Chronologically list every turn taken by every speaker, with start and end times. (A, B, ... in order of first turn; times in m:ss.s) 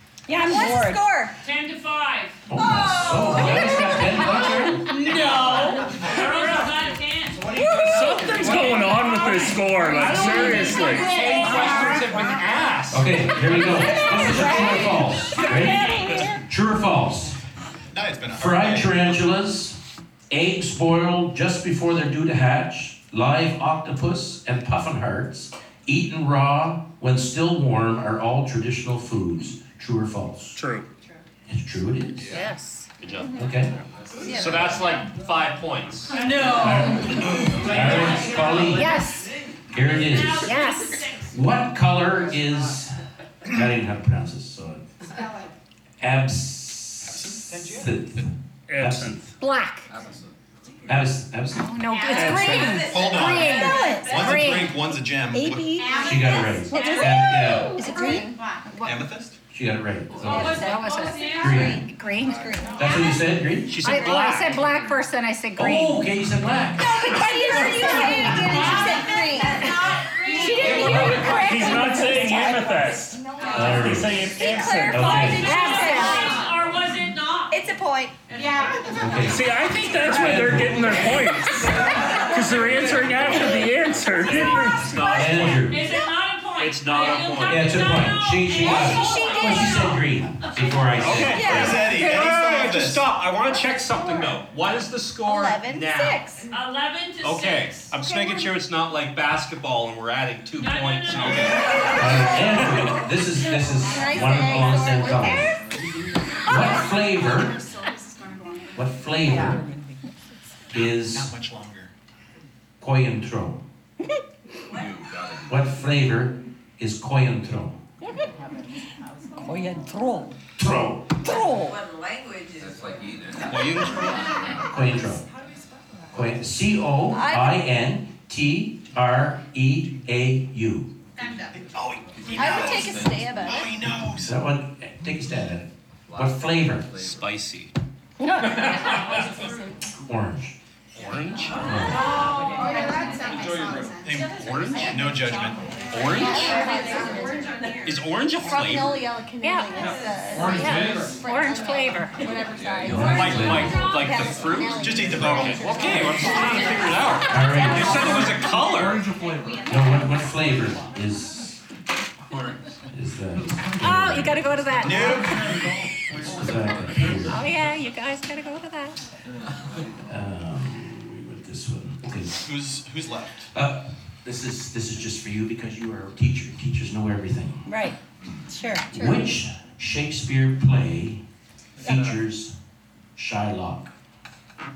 0:00.3-0:01.0 A
0:00.4-0:01.3 B
0:01.4-0:02.4 C
0:02.5-0:04.8 D
0:02.6-0:05.8 B
0:03.5-0:03.8 A
0:06.0-0:07.5 C
0:06.2-0:06.7 E
0:07.4-0:12.9 E
0:09.9-0:12.0 A
0:10.0-0:11.0 F
0:10.1-0:12.1 C
0:12.9-0:17.3 D
0:13.4-0:16.4 A
0:15.4-0:16.1 C
0:17.9-0:19.2 G
0:18.3-0:19.8 D
0:20.3-0:30.6 D
0:30.6-0:30.9 E
0:31.5-0:32.4 D
0:32.3-0:32.9 F
0:33.0-0:33.5 H
0:33.2-0:33.4 B
0:33.4-0:33.7 D
0:34.2-0:34.5 I
0:34.2-0:34.8 B
0:34.3-0:36.1 H
0:36.6-0:38.9 D
0:38.7-0:39.3 F
0:39.7-0:40.6 D
0:39.8-0:41.3 C
0:40.3-0:41.0 F
0:41.3-0:44.8 D
0:46.0-0:49.3 D
0:47.0-0:47.7 G
0:48.7-0:49.2 E
0:49.4-0:49.9 F
0:49.9-0:50.3 I
0:50.9-0:51.6 D
0:51.6-0:54.8 F
0:52.0-0:52.8 E
0:52.8-0:55.7 G
0:53.4-0:54.3 A
0:55.3-0:58.4 A
0:56.0-0:57.8 D
0:56.7-0:58.4 B
0:58.8-0:59.4 G
0:59.5-1:00.6 D
1:00.2-1:01.4 C
1:00.3-1:00.8 B
1:00.3-1:03.0 F
1:01.4-1:01.8 D
1:01.4-1:03.0 B
1:02.8-1:03.7 D
1:03.7-1:04.7 H
1:03.8-1:06.0 F
1:05.6-1:06.9 D
1:06.8-1:09.7 B
1:07.2-1:08.8 A
1:08.5-1:11.6 C
1:10.3-1:13.2 A
1:10.4-1:10.9 B
1:10.6-1:11.2 D
1:10.8-1:15.3 E
1:13.5-1:14.2 D
1:14.3-1:16.4 B
1:14.9-1:15.5 D
1:15.4-1:16.3 F
1:15.8-1:17.6 C
1:17.5-1:18.2 B
1:19.0-1:21.1 D
1:19.3-1:25.2 E
1:23.2-1:25.7 H
1:25.1-1:25.8 D
1:25.6-1:30.0 C
1:26.6-1:27.8 H
1:27.5-1:31.8 D
1:28.6-1:29.8 B
1:31.0-1:36.2 H
1:31.2-1:32.0 B
1:31.4-1:33.0 G
1:35.2-1:36.5 B
1:36.5-1:37.9 C
1:37.2-1:42.2 H
1:40.6-1:42.1 C
1:42.0-1:45.5 D
1:43.8-1:45.6 B
1:46.5-1:47.6 D
1:48.8-1:49.6 D
1:49.2-1:50.0 A
1:50.7-1:51.3 D
1:50.7-1:51.9 G
1:52.8-1:53.6 D
1:54.7-1:55.7 I
1:55.5-1:57.8 D
1:58.2-2:00.4 A
2:00.6-2:01.1 D
2:01.2-2:01.8 A
2:02.6-2:04.6 I
2:03.4-2:04.3 H
2:04.7-2:05.2 D
2:06.1-2:10.9 D
2:07.1-2:07.6 B
2:11.7-2:14.3 G
2:12.2-2:13.4 I
2:12.3-2:13.8 B
2:13.9-2:16.9 D
2:16.1-2:17.3 I
2:17.0-2:17.7 H
2:18.2-2:18.8 A
2:20.1-2:20.5 D
2:20.9-2:21.6 H
2:21.6-2:22.1 D
2:24.0-2:25.6 G
2:24.3-2:25.0 H
2:25.9-2:26.4 H
2:26.2-2:27.6 B
2:27.8-2:29.0 H
2:28.4-2:37.2 B
2:29.4-2:29.7 F
2:30.4-2:32.2 F
2:32.5-2:34.6 I
2:32.8-2:33.9 D
2:33.0-2:39.0 H
2:34.8-2:35.8 G
2:37.3-2:38.2 D
2:39.7-2:41.6 D
2:42.3-2:42.6 I
2:42.9-2:44.4 D
2:43.8-2:45.3 F
2:44.8-2:45.3 G
2:46.3-2:47.4 D
2:47.2-2:49.0 F
2:50.1-2:52.3 D
2:52.4-2:53.5 G
2:53.5-2:57.7 D
2:57.6-2:59.2 A
2:58.9-3:01.2 D
3:01.8-3:02.5 D
3:03.2-3:03.9 D